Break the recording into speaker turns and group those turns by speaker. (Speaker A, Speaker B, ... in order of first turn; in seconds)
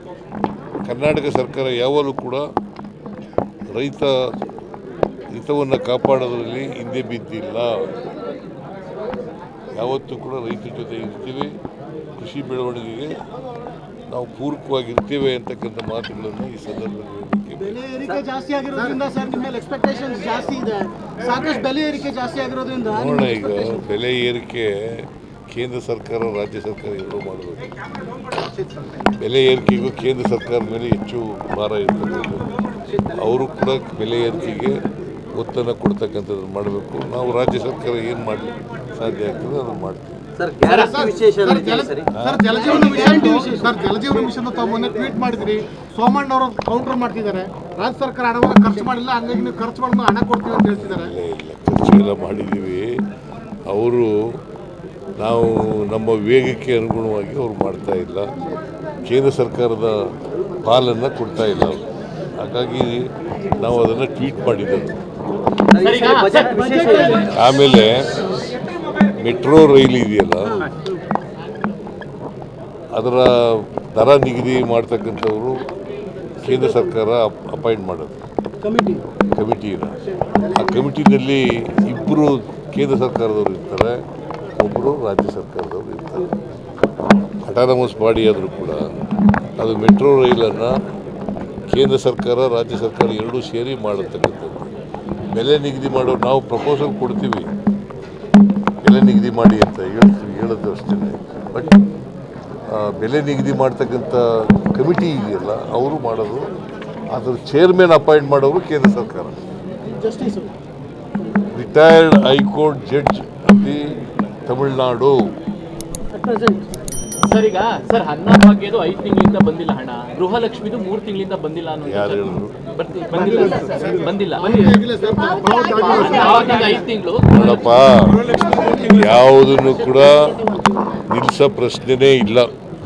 Speaker A: 0.8-2.4, 3.7-4.2, 5.3-7.7, 9.8-11.5, 12.2-13.2, 14.1-17.8, 22.9-27.7, 29.2-34.8, 35.4-40.2, 42.2-42.5, 50.8-52.9, 53.7-54.1, 55.2-58.3, 59.0-60.1, 60.6-61.8, 62.4-65.0, 67.2-68.3, 69.2-70.7, 72.9-75.7, 76.4-78.2, 79.3-84.0, 84.5-86.3, 87.4-88.8, 89.6-90.8, 91.7-94.7, 95.3-97.5, 98.8-101.8, 102.7-106.5, 107.1-109.4, 111.5-115.3, 121.8-122.5, 127.3-130.4, 130.9-132.5
Speaker B: 17.6-23.7, 42.5-43.7, 66.5-67.3, 70.5-70.8, 78.6-79.0, 110.0-110.5, 116.1-116.7
Speaker C: 40.4-42.1, 65.8-66.8
Speaker D: 40.6-51.1, 123.5-126.8
Speaker E: 65.8-67.3, 117.3-124.8, 125.9-127.7